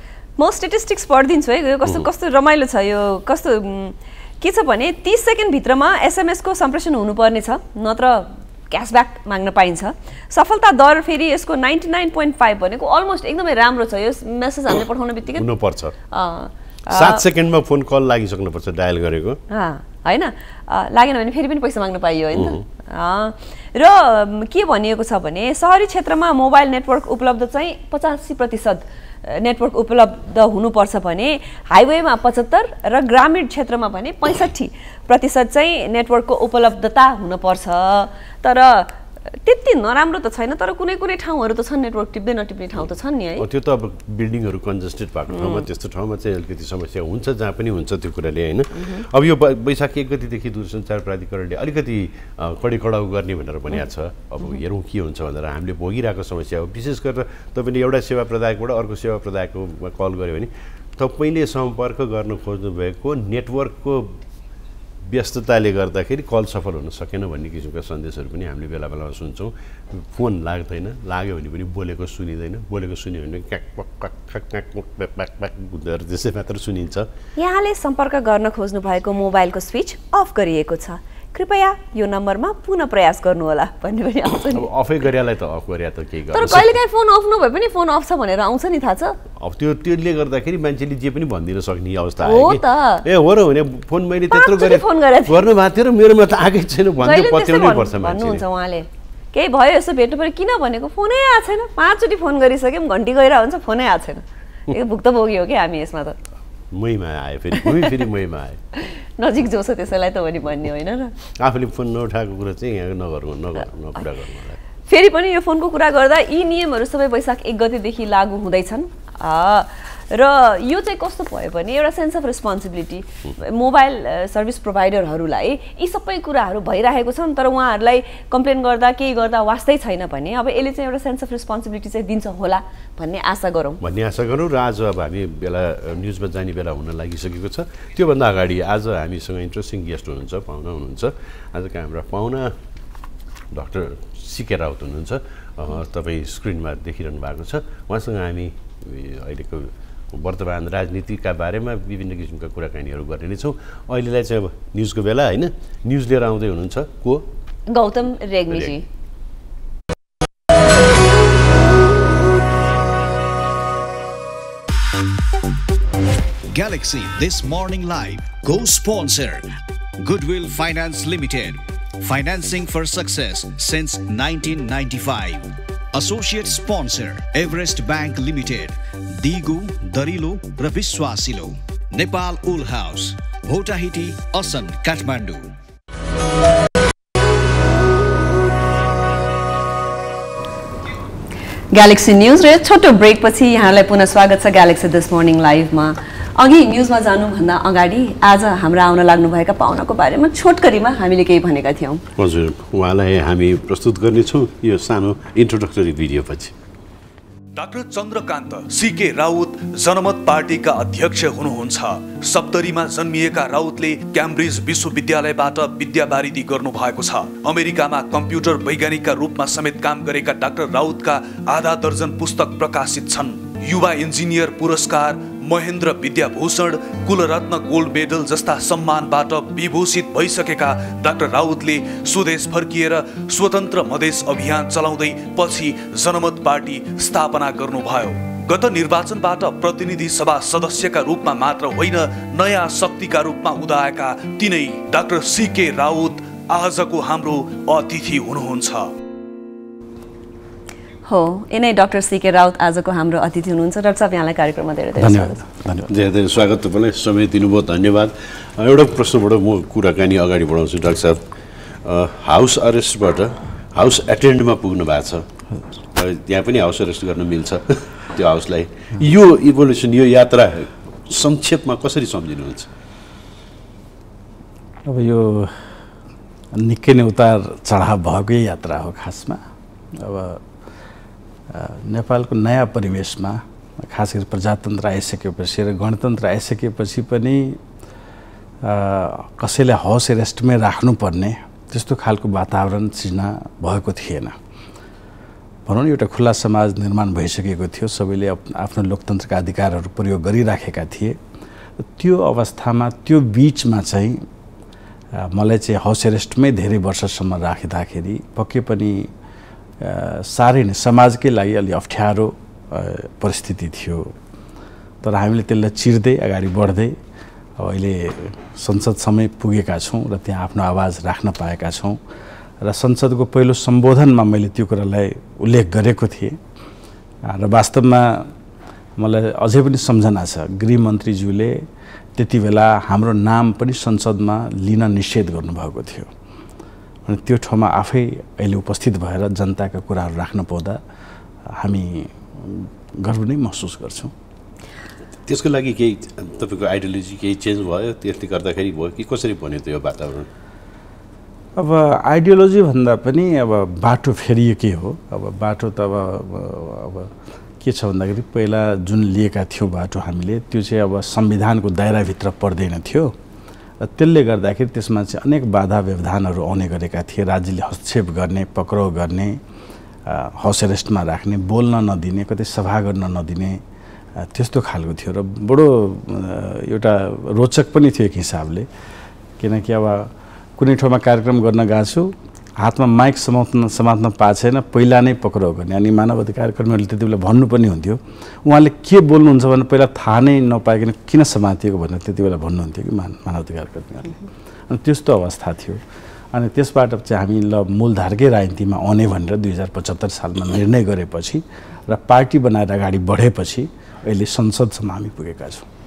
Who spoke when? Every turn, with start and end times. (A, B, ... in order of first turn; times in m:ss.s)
0:00.4-0:15.5 A
0:15.4-0:16.0 B
0:16.1-0:17.2 A
0:16.9-0:19.4 B
0:19.5-0:43.5 A
0:22.4-0:22.6 B
0:43.4-1:04.2 B
0:45.4-0:45.7 A
1:05.0-1:17.1 B
1:17.4-1:24.7 A
1:24.5-1:26.8 B
1:26.3-1:29.2 A
1:29.4-1:38.4 B
1:32.2-1:33.0 A
1:34.3-1:35.5 A
1:37.0-1:46.2 A
1:46.7-1:48.6 B
1:48.8-1:51.1 A
1:51.4-1:54.6 B
1:54.9-2:13.8 A
2:13.8-2:22.6 B
2:23.5-2:37.3 B
2:37.7-2:38.8 A
2:46.5-3:05.6 C
3:11.7-3:22.0 A
3:22.2-3:26.5 B
3:27.6-4:08.9 D
4:11.1-4:15.4 A
4:15.0-4:15.9 E
4:15.9-4:21.2 B
4:21.8-4:25.3 B
4:25.9-4:32.7 B
4:34.9-4:35.6 E
4:36.6-4:39.4 E
4:40.0-4:40.4 E
4:41.5-4:47.6 E
4:48.6-4:54.4 E
4:55.7-5:01.2 E
5:01.9-5:04.2 E
5:05.2-5:09.1 E
5:09.8-5:14.1 E
5:15.0-5:17.0 E
5:17.6-5:22.0 E
5:22.6-5:26.4 E
5:27.3-5:28.3 E
5:29.0-5:31.6 E
5:32.2-5:36.1 E
5:37.1-5:40.8 E
5:41.5-5:44.1 E
5:45.3-5:50.3 B
5:51.6-5:57.1 E
5:57.6-6:03.1 E
6:03.8-6:09.4 E
6:10.1-6:13.6 E
6:14.2-6:18.7 E
6:19.4-6:35.8 E
6:36.3-6:45.6 E